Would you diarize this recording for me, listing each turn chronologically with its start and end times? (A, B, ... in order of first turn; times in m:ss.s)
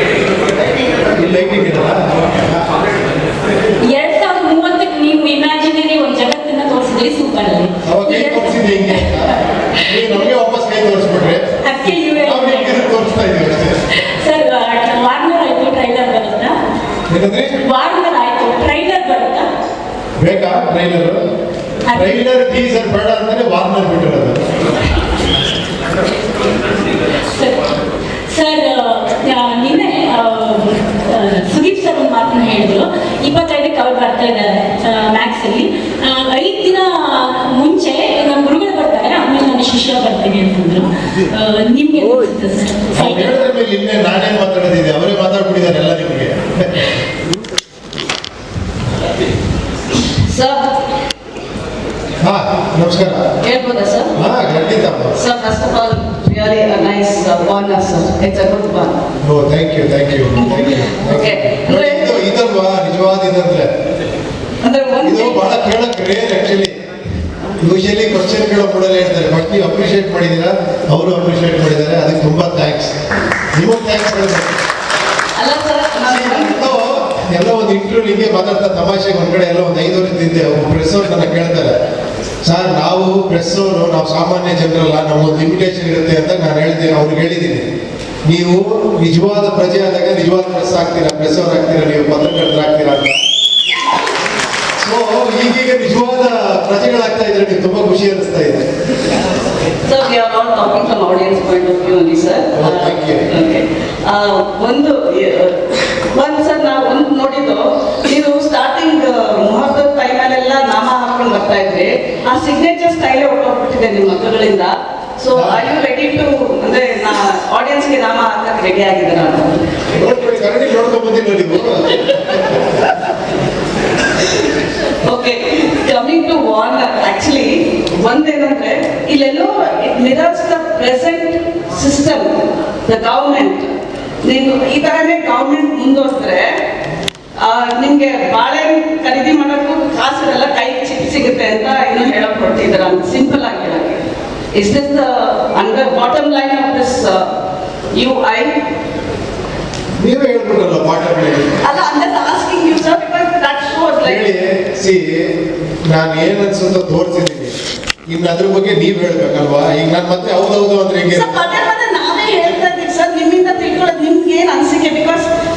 0:01.1-0:02.6 A
0:03.9-0:09.8 B
0:07.9-0:09.4 A
0:09.9-0:11.4 A
0:11.6-0:13.0 B
0:12.2-0:13.8 A
0:13.9-0:16.6 B
0:17.1-0:17.6 A
0:17.6-0:19.5 B
0:20.2-0:21.2 A
0:21.9-0:22.2 B
0:21.9-0:24.4 A
0:27.3-0:27.7 B
0:28.3-0:43.4 B
0:43.0-0:46.9 A
0:50.2-0:50.6 C
0:52.2-0:53.2 A
0:53.4-0:54.1 C
0:54.2-0:55.1 A
0:55.2-0:59.0 C
0:59.2-1:03.7 A
1:01.1-1:02.2 C
1:04.6-1:05.4 C
1:05.0-1:06.7 A
1:07.6-1:12.9 A
1:13.5-1:14.6 A
1:15.4-1:16.7 C
1:16.1-1:21.8 A
1:22.4-1:27.7 A
1:28.2-1:33.2 A
1:34.8-1:38.6 A
1:39.8-1:59.7 C
1:42.6-1:43.2 A
1:55.3-1:55.6 A
1:59.9-2:02.7 A
2:05.0-2:12.3 C
2:12.9-2:13.7 C
2:14.2-2:16.5 C
2:17.4-2:24.0 C
2:24.6-2:27.2 C
2:27.9-2:28.5 C
2:30.0-2:31.7 A
2:31.6-2:34.2 C
2:34.0-2:35.3 A
2:35.9-2:37.5 A
2:38.1-2:41.4 A
2:41.1-2:45.3 C